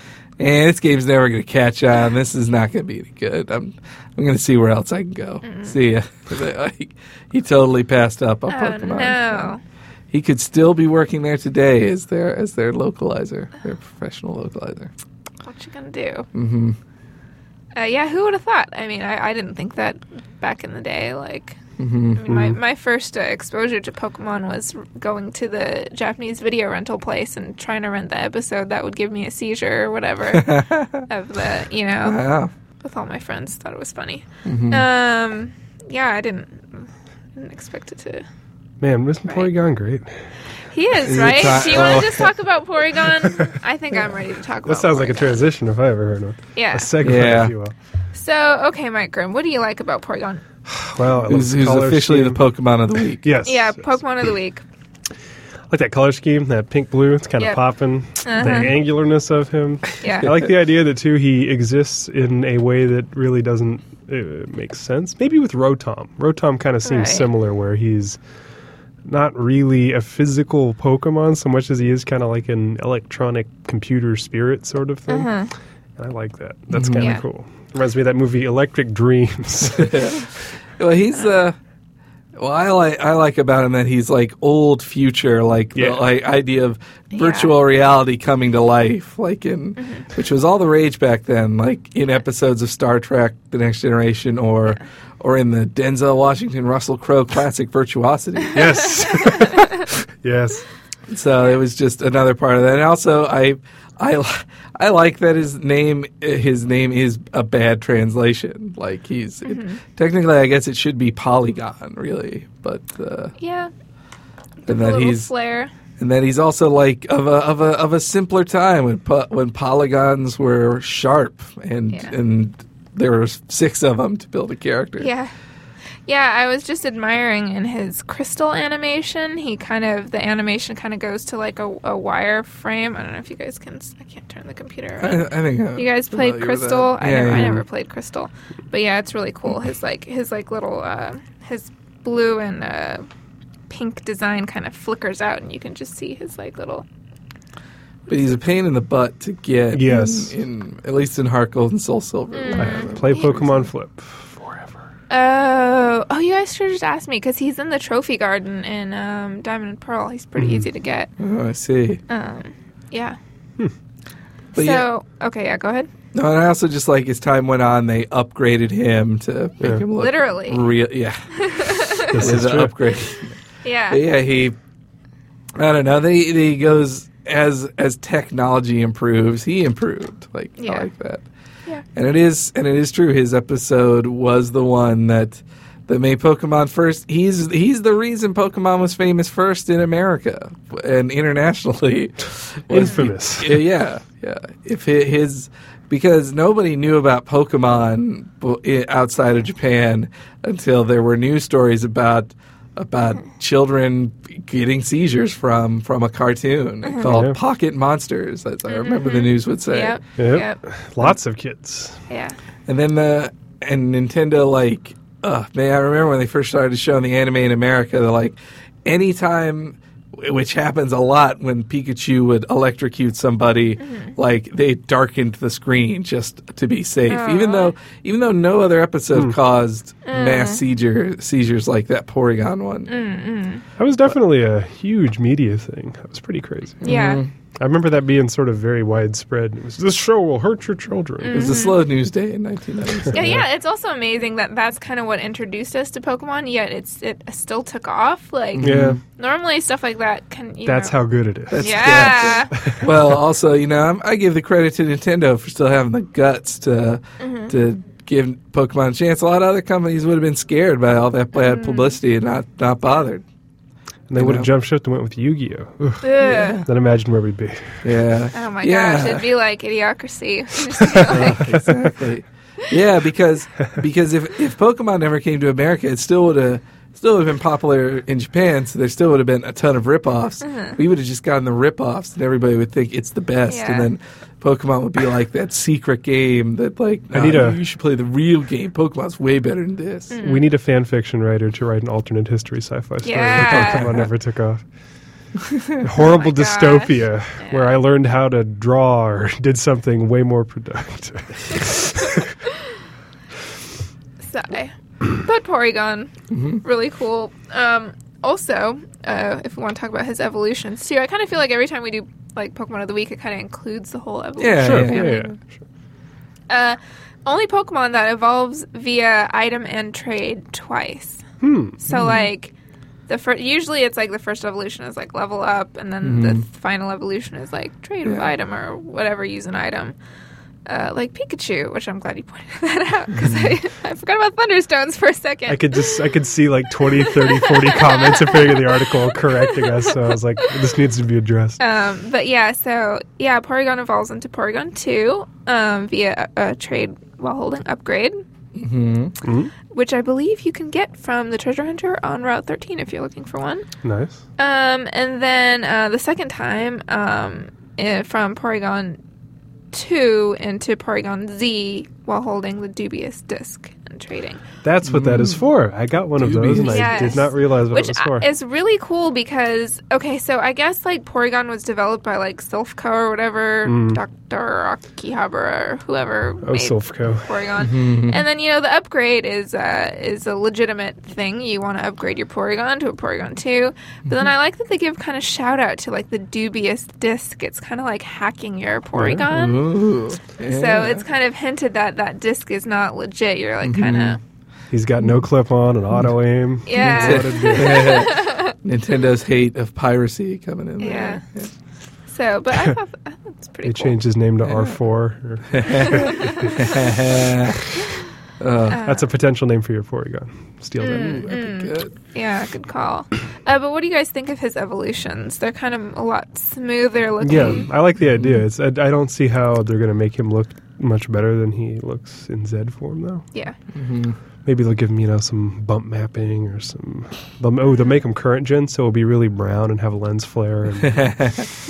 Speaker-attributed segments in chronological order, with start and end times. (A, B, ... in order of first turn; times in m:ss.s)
0:00.4-0:09.5 A
0:05.4-0:05.7 B
0:08.5-0:09.6 B
0:10.1-0:14.9 A
0:15.4-0:16.3 B
0:16.3-0:16.8 A
0:17.8-0:21.6 B
0:21.8-0:22.4 A
0:22.1-0:32.2 B
0:30.3-0:31.1 A
0:32.0-0:32.5 A
0:32.8-0:38.2 B
0:34.4-0:34.8 A
0:38.8-0:40.2 C
0:40.7-0:45.4 B
0:41.0-0:42.3 A
0:44.6-0:47.7 C
0:46.6-0:46.9 B
0:47.0-0:47.5 A
0:48.1-0:50.4 B
0:50.9-0:52.4 C
0:51.2-0:53.2 A
0:53.2-0:53.8 C
0:53.4-0:54.6 B
0:55.7-1:08.2 C
0:58.2-0:58.8 B
1:00.0-1:00.3 B
1:06.8-1:07.3 B
1:09.0-1:15.3 C
1:15.1-1:15.5 B
1:16.0-1:20.2 C
1:16.7-1:17.1 A
1:17.0-1:17.2 B
1:19.7-1:21.6 A
1:22.4-1:39.0 A
1:25.7-1:26.0 C
1:27.1-1:27.5 B
1:38.5-1:40.6 C
1:39.1-1:39.8 B
1:41.1-1:53.3 A
1:49.4-1:49.8 B
1:53.4-1:53.7 B
1:54.6-1:55.7 B
1:54.7-1:55.3 A
1:56.0-2:05.1 A
2:05.0-2:05.3 B
2:06.1-2:23.1 B
2:15.0-2:17.6 A
2:23.7-2:26.8 B
2:28.1-2:33.7 A
2:29.7-2:30.3 C
2:32.3-2:33.4 B
2:32.5-2:34.8 C
2:35.1-2:41.1 B
2:40.4-2:40.6 C
2:41.2-2:42.0 A
2:42.1-2:43.2 B
2:44.5-2:44.9 A
2:44.5-2:45.9 B
2:46.1-2:53.4 A
2:49.9-2:50.7 B
2:51.4-2:52.2 B
2:52.1-2:52.7 C
2:53.6-2:54.0 B
2:53.9-2:54.6 A
2:55.5-3:01.2 A
3:00.6-3:00.9 B
3:01.9-3:30.0 A
3:12.7-3:13.6 C
3:27.0-3:27.4 C
3:28.7-3:30.6 B
3:30.2-3:32.0 C
3:32.1-3:32.4 B
3:32.7-3:52.9 A
3:43.8-3:44.1 B
3:47.1-3:47.7 B
3:50.0-3:50.6 B
3:52.9-3:53.6 B
3:53.8-3:57.0 C
3:56.8-3:57.2 B
3:56.8-3:57.3 A
3:57.6-4:01.5 C
4:01.2-4:01.8 B
4:01.3-4:03.4 A
4:03.0-4:03.4 C
4:03.1-4:11.0 B
4:08.5-4:09.0 A
4:08.6-4:09.0 C
4:10.6-4:12.9 C
4:11.5-4:23.2 A
4:11.6-4:12.5 B
4:17.2-4:17.5 B
4:21.4-4:22.0 B
4:24.1-4:27.9 C
4:24.2-4:24.5 A
4:26.0-4:26.6 B
4:26.2-4:26.7 A
4:27.8-4:29.2 A
4:28.3-4:31.5 B
4:30.9-4:31.8 C
4:31.0-4:50.1 A
4:40.4-4:40.8 B
4:43.5-4:43.9 B
4:47.1-4:47.6 C
4:50.1-4:50.5 B
4:50.2-4:54.6 C
4:53.0-4:53.9 B
4:53.4-4:54.1 A
4:55.4-4:55.8 A
4:55.8-5:02.3 C
4:56.0-4:57.8 B
5:04.2-5:15.3 B
5:06.3-5:06.6 A
5:14.4-5:15.3 A
5:14.6-5:15.5 C
5:16.5-5:21.2 B
5:21.4-5:21.8 C
5:21.8-5:22.5 B
5:21.9-5:22.2 A
5:23.1-5:30.0 B
5:26.0-5:26.4 A
5:30.6-5:36.0 B
5:33.1-5:33.6 A
5:35.5-5:41.6 C
5:36.9-5:40.0 B
5:41.6-5:48.2 B
5:48.5-5:49.1 A
5:49.2-5:49.5 C
5:49.7-5:53.6 B
5:53.8-5:54.2 C
5:54.4-5:59.0 B
5:59.7-6:04.4 B
6:04.6-6:08.2 C
6:04.8-6:05.4 A
6:06.2-6:07.2 A
6:06.6-6:29.7 B
6:13.6-6:14.0 C
6:16.4-6:17.3 C
6:17.6-6:18.2 A
6:29.2-6:31.0 A
6:30.4-6:34.2 B
6:33.6-6:34.2 A
6:34.7-6:38.1 C
6:36.6-6:38.5 B
6:36.8-6:41.5 A
6:40.8-6:41.2 B
6:42.1-6:44.0 B
6:43.6-6:46.7 C
6:44.4-6:44.8 A
6:45.5-6:47.6 A
6:45.7-6:46.7 B
6:48.4-6:48.8 A
6:48.7-6:49.0 B
6:48.8-6:51.3 C
6:50.8-6:57.7 B
6:51.0-6:51.9 A
6:57.2-7:03.2 C
6:58.0-6:58.4 A
7:03.7-7:04.2 A
7:04.4-7:11.4 C
7:10.8-7:11.5 A